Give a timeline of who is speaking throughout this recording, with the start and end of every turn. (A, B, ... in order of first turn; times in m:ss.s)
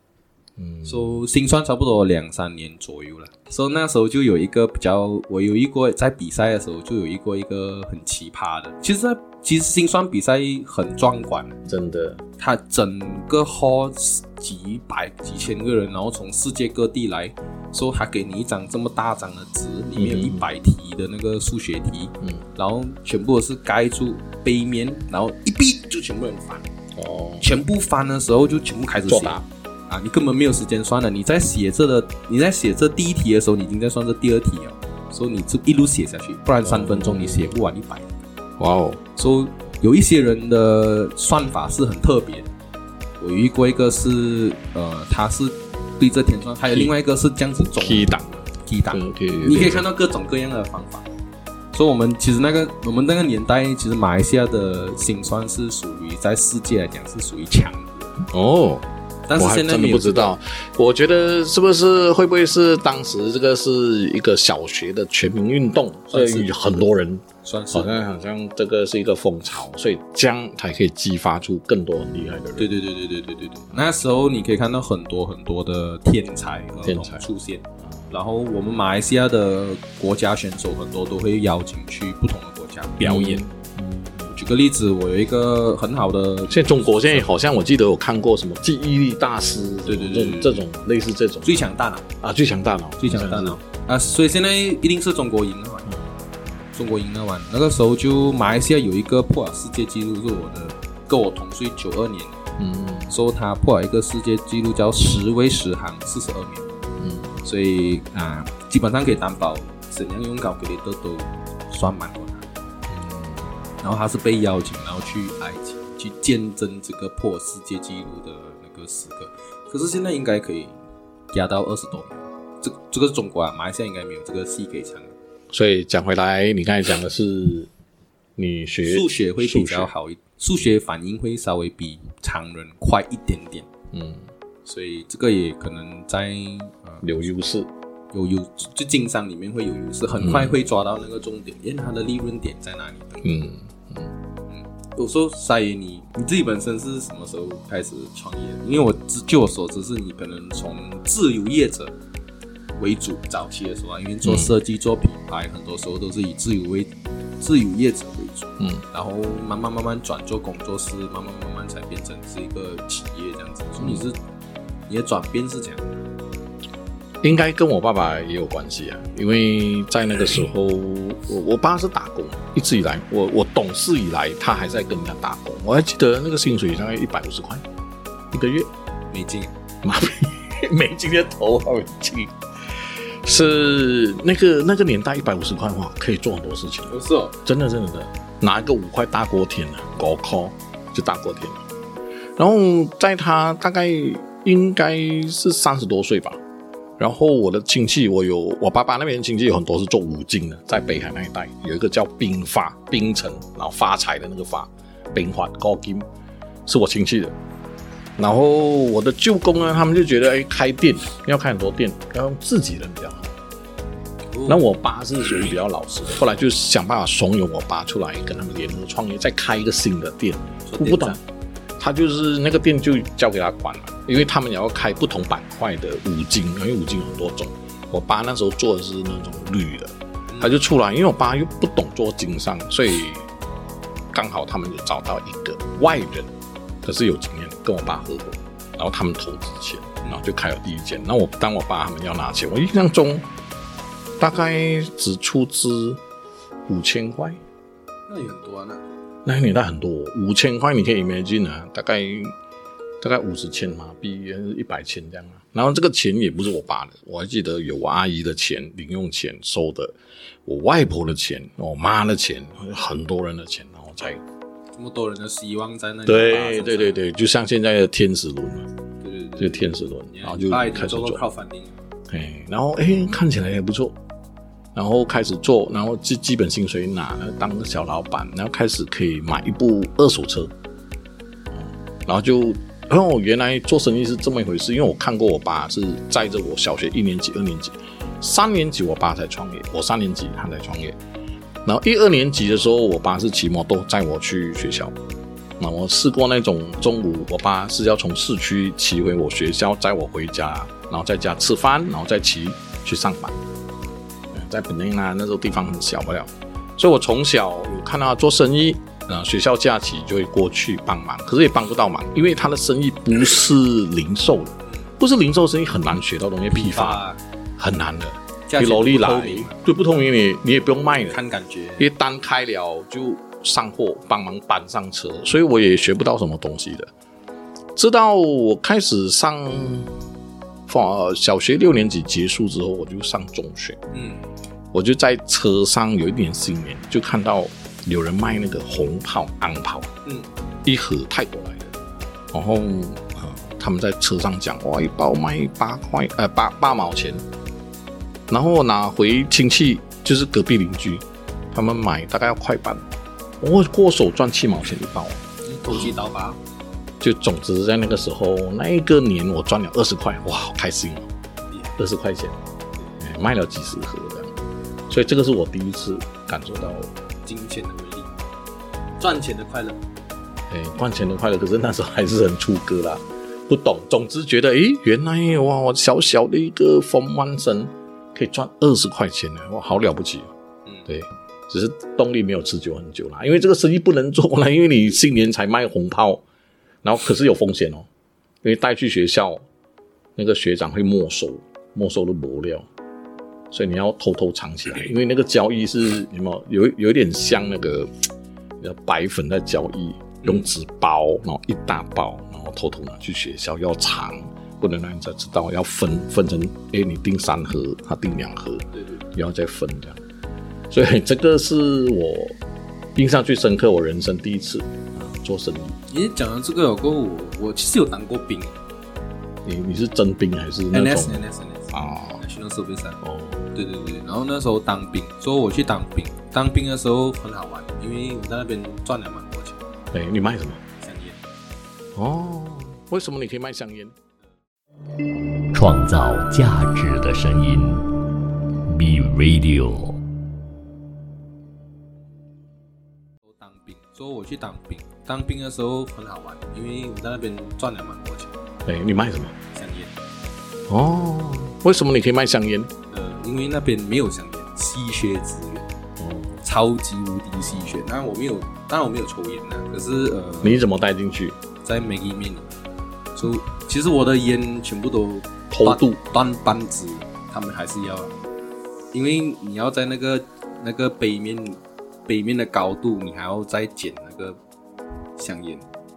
0:00.6-0:01.2 A
0:00.8-0:11.6 B
0:11.7-0:12.2 A
0:12.4-0:26.7 B
0:20.0-0:20.5 A
0:27.0-0:27.5 A
0:27.4-0:38.1 B
0:29.1-0:29.4 A
0:36.6-0:37.5 A
0:38.6-0:39.0 A
0:39.2-0:42.5 B
0:43.2-0:51.1 B
0:47.6-0:49.9 A
0:51.7-0:58.2 B
0:58.3-1:12.7 A
0:59.3-1:00.3 B
1:06.1-1:06.9 B
1:07.4-1:08.0 B
1:12.6-1:23.4 B
1:16.8-1:17.2 A
1:17.8-1:18.1 A
1:23.0-1:24.3 A
1:24.3-1:27.3 B
1:26.5-1:31.7 A
1:29.9-1:30.6 B
1:31.4-1:32.1 B
1:32.2-1:33.6 A
1:33.0-1:35.9 B
1:36.7-1:42.4 B
1:42.6-1:43.1 A
1:43.1-1:46.7 B
1:47.0-1:47.4 A
1:47.4-1:52.5 B
1:52.9-1:53.6 A
1:53.8-2:00.8 B
2:01.3-2:05.1 B
2:05.5-2:07.7 A
2:08.4-2:09.9 A
2:08.8-2:13.7 B
2:13.9-2:14.2 A
2:14.6-2:17.1 B
2:17.0-2:17.7 A
2:18.1-2:23.3 B
2:20.2-2:20.6 A
2:23.2-2:24.1 A
2:24.5-2:31.9 B
2:32.8-2:44.2 B
2:34.2-2:34.5 A
2:43.8-2:44.1 A
2:44.9-2:45.9 B
2:47.2-2:57.6 A
2:58.3-2:58.7 A
2:59.1-2:59.5 B
2:59.8-3:11.6 A
3:06.9-3:07.4 B
3:12.4-3:16.4 A
3:17.0-3:26.1 A
3:26.7-3:27.4 A
3:28.2-3:33.3 A
3:34.3-3:34.7 B
3:34.5-3:41.2 A
3:40.7-3:41.2 B
3:41.8-3:53.3 A
3:50.3-3:50.6 B
3:54.1-3:56.3 A
3:56.8-4:03.3 A
4:04.2-4:06.0 A
4:06.7-4:07.4 A
4:08.1-4:08.8 B
4:09.2-4:12.4 A
4:13.0-4:20.0 A
4:20.5-4:24.2 A
4:24.8-4:27.0 B
4:26.1-4:28.7 A
4:29.0-4:31.8 B
4:29.4-4:31.2 A
4:32.1-4:34.0 A
4:34.8-4:40.5 A
4:41.5-4:51.0 A
4:51.6-4:55.0 A
4:55.6-5:03.4 A
5:04.3-5:17.0 A
5:16.5-5:17.2 B
5:17.6-5:21.2 A
5:18.5-5:19.6 B
5:21.1-5:21.9 B
5:21.8-5:26.9 A
5:27.8-5:29.9 A
5:30.7-5:33.8 A
5:33.9-5:34.2 B
5:34.7-5:39.9 A
5:40.0-5:40.3 B
5:40.6-5:41.7 A
5:42.3-5:47.2 A
5:48.3-5:52.8 A
5:53.4-5:55.9 A
5:55.4-5:56.4 B
5:57.0-6:01.1 A
6:01.5-6:01.8 B
6:01.8-6:02.4 A
6:03.0-6:04.3 A
6:04.9-6:06.9 A
6:07.2-6:08.1 B
6:09.0-6:09.8 B
6:10.5-6:20.3 A
6:20.9-6:26.2 A
6:26.8-6:27.9 A
6:28.4-6:29.4 A
6:30.2-6:32.7 A
6:33.5-6:38.1 A
6:38.6-6:50.0 A
6:40.2-6:40.5 B
6:48.7-6:49.0 B
6:50.7-6:52.4 A
6:53.0-6:55.8 A
6:55.9-6:58.6 B
6:59.4-7:02.2 A
7:00.7-7:03.0 B
7:03.0-7:03.5 A
7:03.5-7:09.6 B
7:09.9-7:10.6 A
7:10.8-7:11.2 B
7:12.0-7:14.0 A
7:15.5-7:17.9 C
7:18.7-7:20.0 C
7:23.2-7:28.4 B
7:28.7-7:29.4 A
7:29.5-7:29.9 B
7:30.7-7:32.7 A
7:32.9-7:35.7 B
7:36.0-7:36.4 A
7:36.4-7:40.6 B
7:40.4-7:41.4 A
7:41.6-7:42.6 B
7:43.2-7:48.1 B
7:45.5-7:46.0 A
7:48.9-7:54.4 B
7:55.2-7:55.6 B